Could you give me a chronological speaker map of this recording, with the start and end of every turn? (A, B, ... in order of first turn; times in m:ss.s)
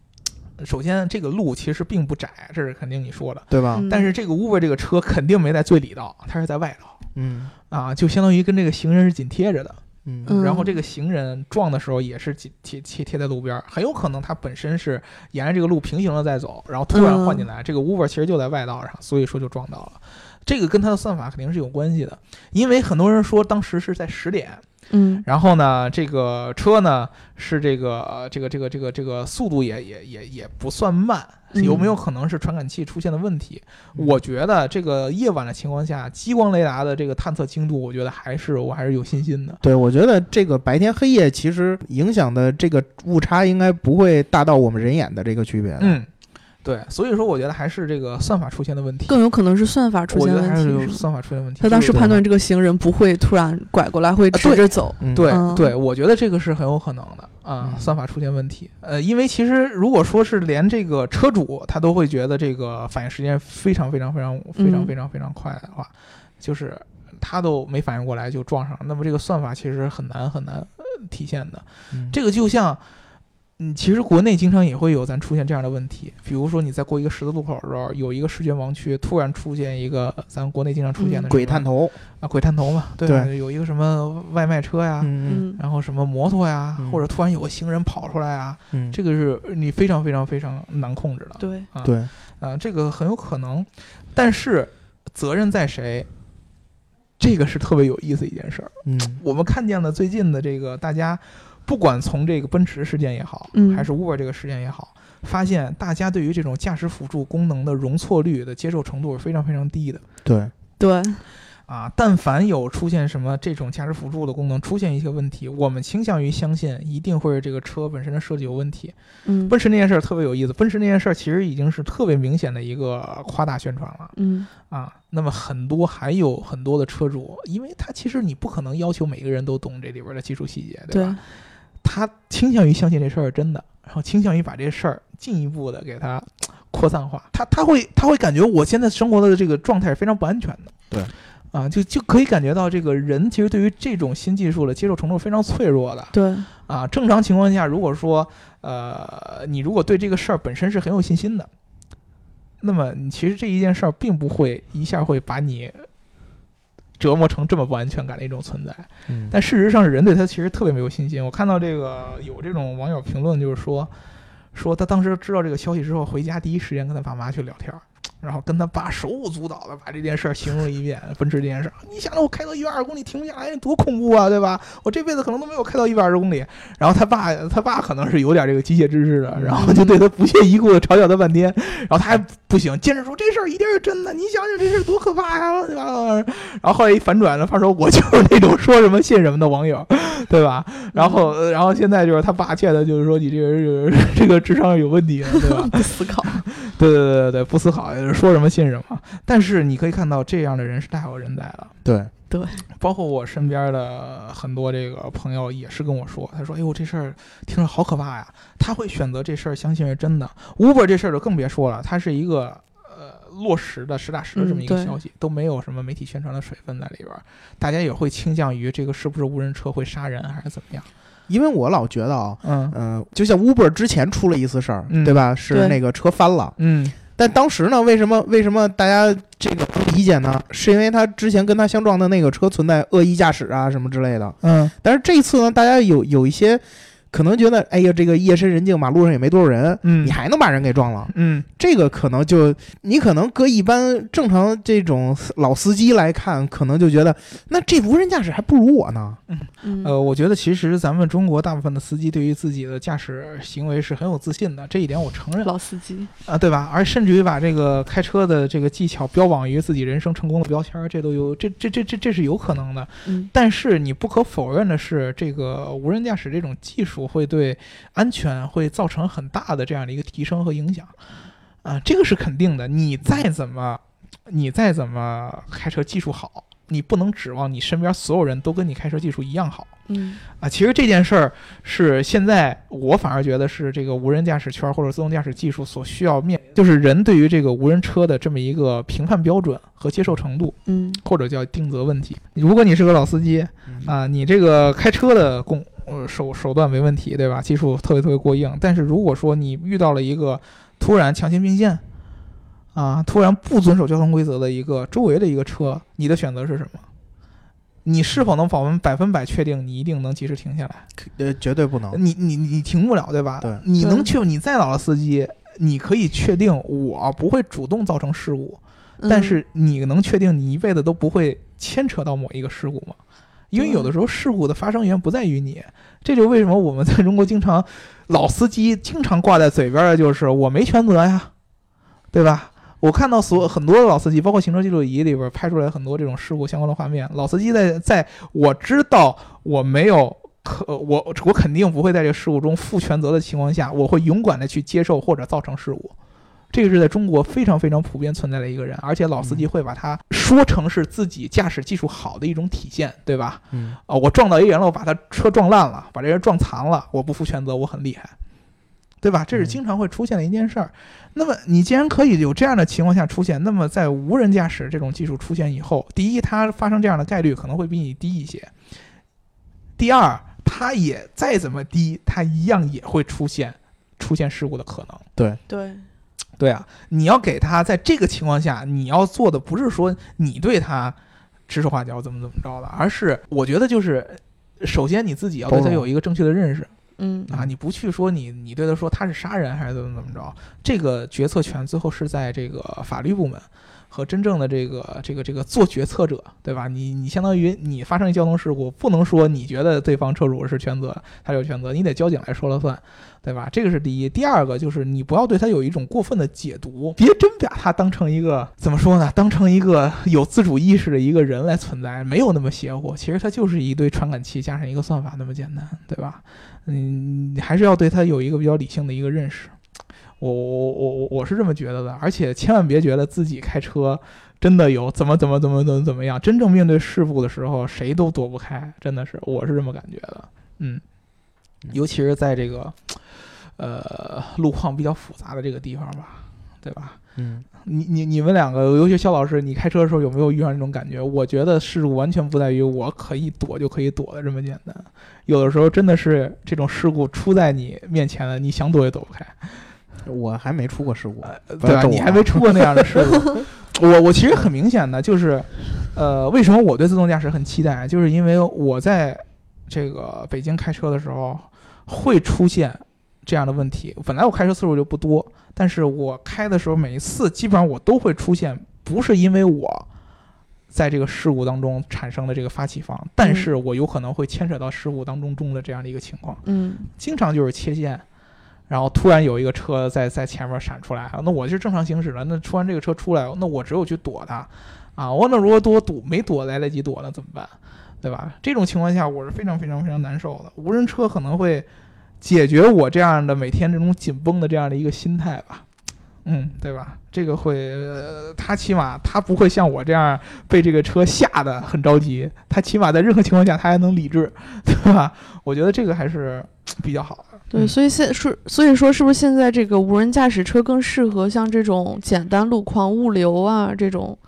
0:00.6-0:07.0 A
0:03.5-0:03.8 B
0:03.7-0:04.1 C
0:07.1-0:07.5 B
0:07.7-0:24.6 A
0:10.0-0:10.3 B
0:10.2-0:10.8 C
0:16.9-0:17.5 C
0:24.9-0:25.2 C
0:25.2-0:39.6 A
0:31.5-0:31.8 C
0:31.6-0:31.9 B
0:39.6-0:46.0 B
0:45.8-0:46.1 A
0:46.6-0:49.2 A
0:49.1-0:51.0 C
0:50.1-0:52.0 A
0:51.6-0:55.7 C
0:51.9-0:52.2 B
0:54.3-1:12.8 A
0:55.0-0:55.4 B
0:57.6-0:57.9 B
1:04.6-1:04.9 C
1:13.6-1:21.6 A
1:21.0-1:21.3 C
1:21.3-1:22.0 B
1:22.2-1:36.1 A
1:25.0-1:25.4 B
1:25.3-1:25.6 C
1:31.4-1:31.7 C
1:31.8-1:32.1 B
1:37.2-1:50.0 A
1:38.8-1:39.2 B
1:43.5-1:43.9 C
1:50.2-1:50.5 B
1:50.8-1:51.2 C
1:51.7-1:58.9 A
1:59.2-1:59.5 C
1:59.5-2:04.1 A
2:04.1-2:04.5 C
2:04.7-2:11.2 A
2:10.9-2:11.2 C
2:11.8-2:20.7 A
2:21.5-2:26.1 A
2:26.1-2:26.5 C
2:26.7-2:31.5 A
2:32.6-2:35.9 A
2:37.0-2:43.9 A
2:39.1-2:39.3 B
2:44.5-3:21.7 A
2:59.4-2:59.7 B
2:59.5-3:00.0 C
3:10.9-3:11.3 C
3:15.3-3:16.4 C
3:21.8-3:22.1 B
3:22.3-3:22.6 C
3:22.7-3:40.9 A
3:34.3-3:35.0 C
3:41.3-3:46.5 B
3:42.4-3:42.7 A
3:44.9-3:45.2 A
3:45.5-3:45.8 C
3:46.6-3:47.0 A
3:47.1-4:09.2 B
3:54.4-3:54.7 A
3:59.8-4:00.2 A
4:01.1-4:01.5 A
4:09.3-4:15.5 A
4:09.6-4:09.9 C
4:15.4-4:16.1 C
4:16.2-4:30.9 A
4:23.0-4:23.3 C
4:31.6-4:39.7 A
4:39.9-4:40.2 C
4:40.4-5:01.8 A
4:50.6-4:51.0 C
4:53.7-4:53.9 B
5:02.7-5:06.8 A
5:07.8-5:10.8 A
5:11.0-5:12.0 B
5:11.9-5:23.0 A
5:13.8-5:14.1 C
5:19.0-5:19.4 C
5:23.5-5:31.3 A
5:23.5-5:23.9 C
5:32.1-5:45.9 A
5:46.5-5:58.1 A
5:49.2-5:49.4 B
5:53.5-5:53.8 B
5:59.0-6:08.5 A
6:09.8-6:15.0 A
6:15.2-6:15.4 B
6:15.5-6:15.8 C
6:16.4-6:21.0 A
6:21.5-6:26.7 A
6:25.5-6:25.8 B
6:27.0-6:27.3 C
6:27.3-6:59.5 A
7:00.2-7:10.8 A
7:11.7-7:13.0 A
7:13.6-7:17.0 A
7:17.2-7:17.4 B
7:17.6-7:29.5 A
7:30.0-7:33.2 B
7:31.2-7:49.8 A
7:50.7-7:56.4 A
7:53.2-7:53.5 C
7:56.4-7:56.9 C
7:57.0-7:58.0 A
7:58.7-8:11.7 A
8:12.2-8:15.6 A
8:16.2-8:27.7 A
8:27.5-8:34.2 C